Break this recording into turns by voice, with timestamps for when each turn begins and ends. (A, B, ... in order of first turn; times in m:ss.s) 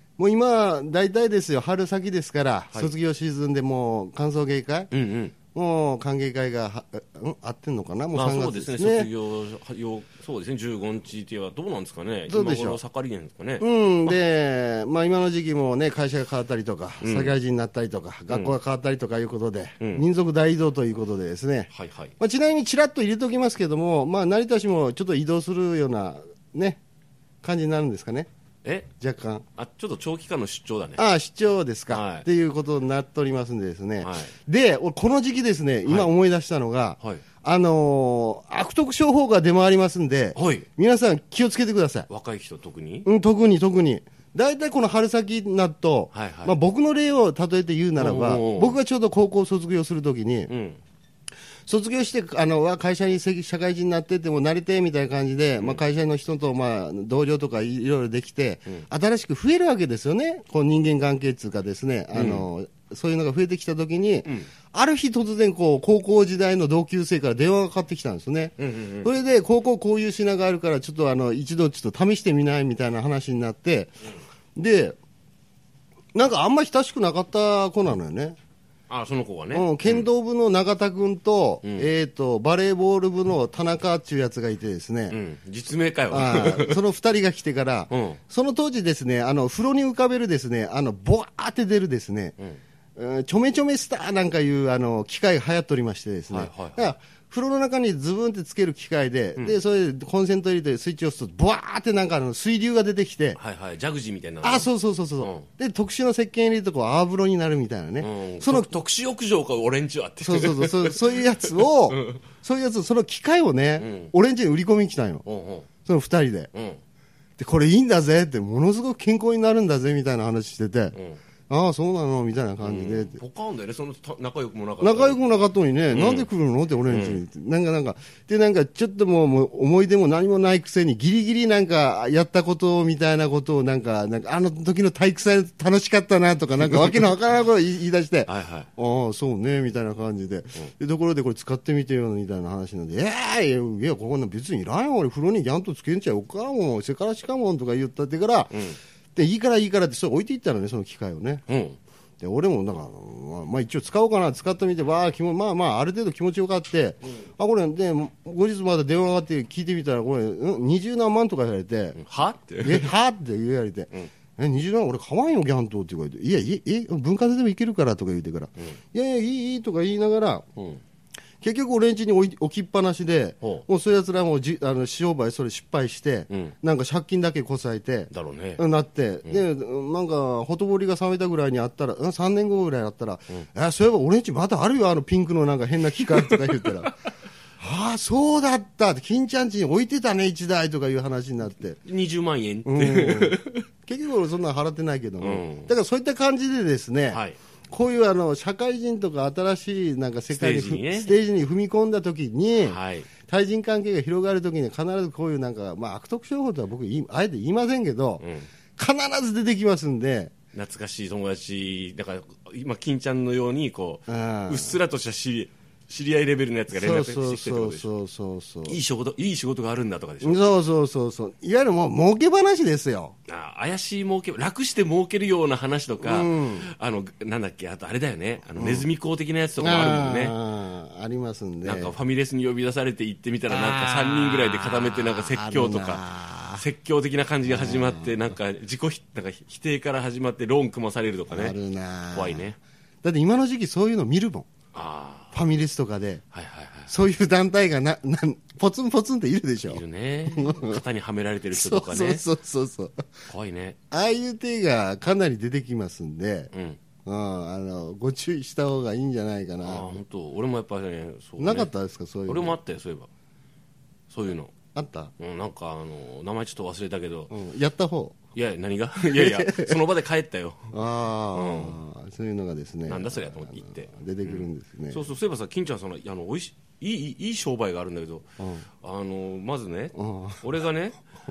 0:00.2-0:04.9 A
0:04.9-0:05.4 B
0:05.5-0:09.1 A
0:08.1-0:14.2 B
0:12.3-0:12.8 A
0:13.6-0:26.8 A
0:17.0-0:17.4 B
0:18.3-0:18.6 B
0:19.8-0:20.1 B
0:21.7-0:22.2 B
0:27.4-0:28.3 A
0:28.6-0:28.9 B
0:29.0-0:29.4 A
0:29.6-0:31.1 B
0:31.0-0:42.1 A
0:31.9-0:32.3 B
0:34.0-0:34.4 B
0:35.8-0:36.1 B
0:37.0-0:37.2 B
0:40.4-0:40.7 B
0:42.1-0:43.1 B
0:43.1-0:50.5 A
0:46.1-0:46.6 B
0:48.0-0:48.8 B
0:50.5-0:50.8 B
0:51.7-1:13.9 A
1:02.1-1:02.5 B
1:04.2-1:04.5 B
1:08.6-1:09.1 B
1:14.6-1:15.0 A
1:16.1-1:18.4 A
1:18.9-1:20.1 B
1:19.5-1:25.2 A
1:21.6-1:21.9 B
1:25.1-1:26.8 B
1:26.1-1:32.4 A
1:27.9-1:28.2 B
1:33.0-1:43.4 A
1:36.3-1:37.0 B
1:43.4-1:45.5 B
1:44.4-1:48.7 A
1:48.0-1:52.2 B
1:50.2-1:55.2 A
1:53.8-1:54.1 B
1:55.2-1:55.7 B
1:55.9-1:56.5 A
1:56.5-1:56.8 B
1:57.4-2:01.0 A
2:00.9-2:01.2 B
2:01.5-2:03.2 A
2:02.6-2:05.2 B
2:04.8-2:28.6 A
2:05.9-2:06.3 B
2:06.9-2:07.2 B
2:18.3-2:18.7 B
2:28.5-2:28.8 B
2:29.2-2:31.5 A
2:31.5-2:31.8 B
2:32.2-2:42.0 A
2:42.0-2:42.9 B
2:42.6-2:50.5 A
2:50.6-2:50.8 B
2:51.4-3:07.0 A
2:53.4-2:53.7 B
2:56.3-2:56.6 B
2:58.1-2:58.6 B
3:06.2-3:06.7 B
3:07.6-3:11.8 A
3:11.8-3:13.7 B
3:12.6-3:28.2 A
3:15.2-3:15.7 B
3:17.1-3:17.4 B
3:20.3-3:21.2 B
3:22.6-3:23.1 B
3:28.2-3:28.5 B
3:28.8-3:30.3 A
3:30.5-3:37.9 B
3:34.1-3:34.8 A
3:36.7-3:38.8 A
3:38.7-3:40.5 B
3:40.2-3:43.2 A
3:43.3-3:50.4 B
3:46.0-3:46.7 A
3:48.6-3:48.9 A
3:49.6-3:52.0 A
3:51.6-4:01.6 B
3:53.5-3:56.6 A
3:57.4-3:58.3 A
4:01.3-4:02.5 A
4:02.1-4:02.6 B
4:03.0-4:04.5 A
4:04.7-4:05.4 B
4:05.3-4:06.2 A
4:06.3-4:06.9 B
4:06.9-4:10.8 A
4:09.7-4:12.3 B
4:11.5-4:13.1 A
4:13.3-4:13.8 B
4:13.9-4:16.5 A
4:16.5-4:16.8 B
4:17.1-4:20.0 A
4:19.6-4:21.7 B
4:21.4-4:22.6 A
4:22.3-4:23.1 B
4:24.1-4:24.5 B
4:24.8-4:25.1 A
4:25.2-4:27.3 B
4:27.3-4:28.2 A
4:28.4-4:30.8 B
4:29.1-4:29.8 A
4:30.7-4:35.1 A
4:31.3-4:31.8 B
4:32.9-4:38.3 B
4:38.4-4:38.7 A
4:38.8-4:41.0 B
4:40.0-4:40.4 A